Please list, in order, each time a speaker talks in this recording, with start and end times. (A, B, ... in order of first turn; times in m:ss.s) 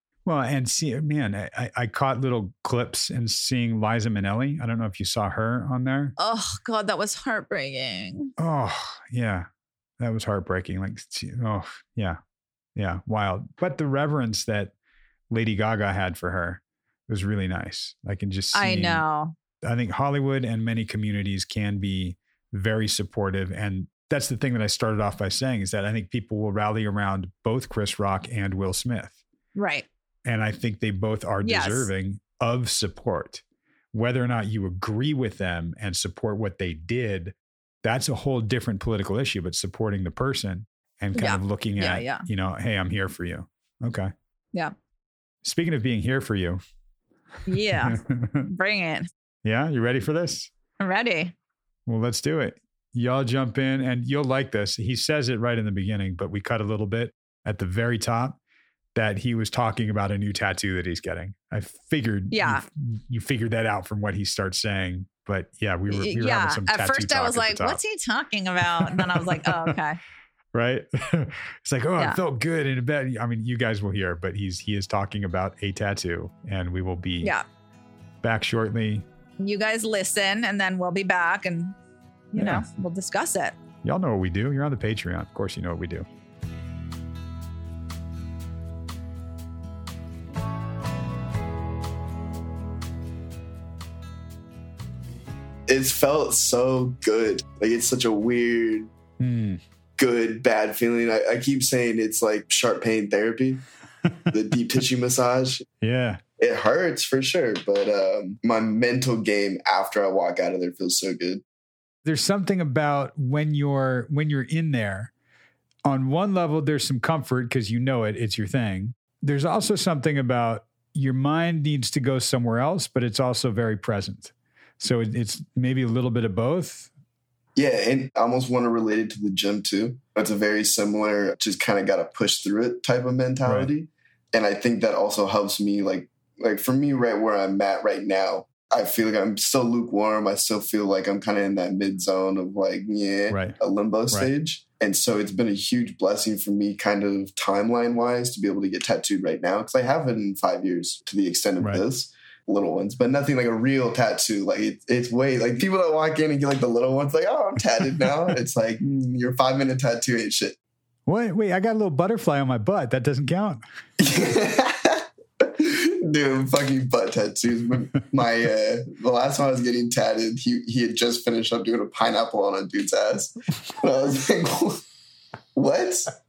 0:00.3-0:06.2 A
0:06.2-0:08.3 B
0:08.4-0:09.5 A
0:10.0-0:12.2 A
0:12.8-0:14.7 A
0:15.3-0:19.0 A
0:18.5-0:19.4 B
0:19.6-0:29.2 A
0:29.6-0:29.9 B
0:30.2-0:44.1 A
0:31.4-0:31.9 B
0:41.2-0:42.3 B
0:45.4-0:46.6 A
0:47.5-0:49.1 B
0:47.7-0:48.5 A
0:49.4-0:50.5 A
0:50.8-0:51.3 B
0:51.9-0:58.4 A
0:59.0-1:07.8 A
1:02.3-1:02.6 B
1:05.9-1:10.0 B
1:08.7-1:09.8 A
1:10.5-1:17.3 A
1:18.2-1:19.1 A
1:19.4-1:21.8 B
1:22.3-1:23.6 B
1:22.4-1:22.7 A
1:23.8-1:26.1 A
1:35.7-1:38.9 C
1:39.2-1:39.6 A
1:40.0-1:43.6 C
1:44.3-1:45.7 C
1:45.8-1:46.2 A
1:46.4-1:51.4 C
1:52.0-1:55.1 A
1:55.9-2:06.9 A
2:07.6-2:40.6 C
2:13.4-2:13.7 A
2:23.3-2:23.6 A
2:41.1-2:43.6 A
2:44.0-2:54.8 C
2:55.6-2:56.1 C